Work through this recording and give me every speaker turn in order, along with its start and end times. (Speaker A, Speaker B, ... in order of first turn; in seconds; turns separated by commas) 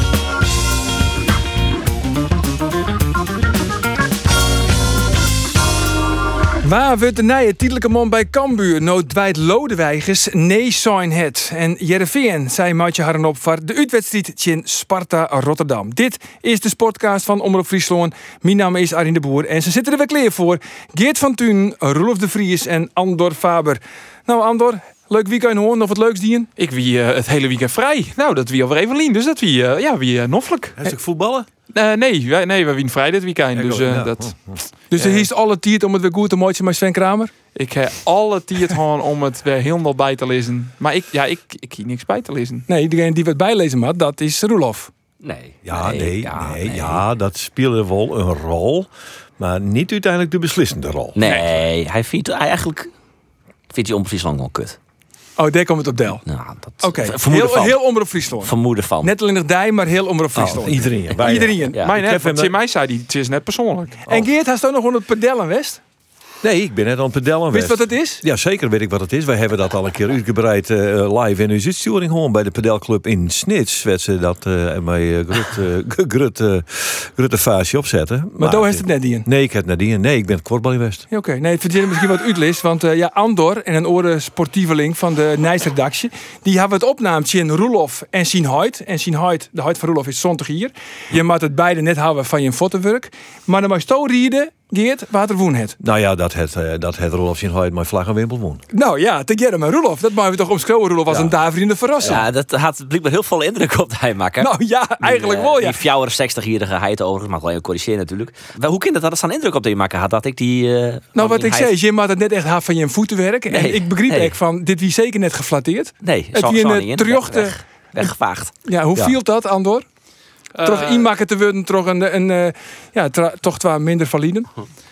Speaker A: 6.6-26.5, Speaker B: 26.6-30.8, Speaker C: 30.8-31.5, Speaker B: 31.7-34.3, Speaker C: 33.5-34.6, Speaker A: 34.9-37.3, Speaker B: 34.9-35.3, Speaker B: 37.5-42.6, Speaker A: 42.7-44.9, Speaker D: 45.2-47.0, Speaker C: 45.6-51.3, Speaker D: 51.1-52.9, Speaker D: 53.7-54.8, Speaker A: 55.4-56.2, Speaker D: 56.2-57.8, Speaker A: 56.8-61.8, Speaker D: 58.4-59.1, Speaker C: 60.4-62.5, Speaker D: 61.7-62.0, Speaker B: 61.8-64.0, Speaker A: 64.1-65.8, Speaker C: 66.4-81.0, Speaker A: 67.5-68.2, Speaker A: 78.4-79.3, Speaker A: 81.1-95.8, Speaker C: 95.8-98.6, Speaker A: 98.7-102.2, Speaker D: 102.0-111.7, Speaker A: 104.4-105.8, Speaker A: 111.1-117.5, Speaker D: 113.5-114.3, Speaker D: 116.0-118.5, Speaker A: 118.6-119.8, Speaker B: 120.6-121.1, Speaker A: 120.6-124.5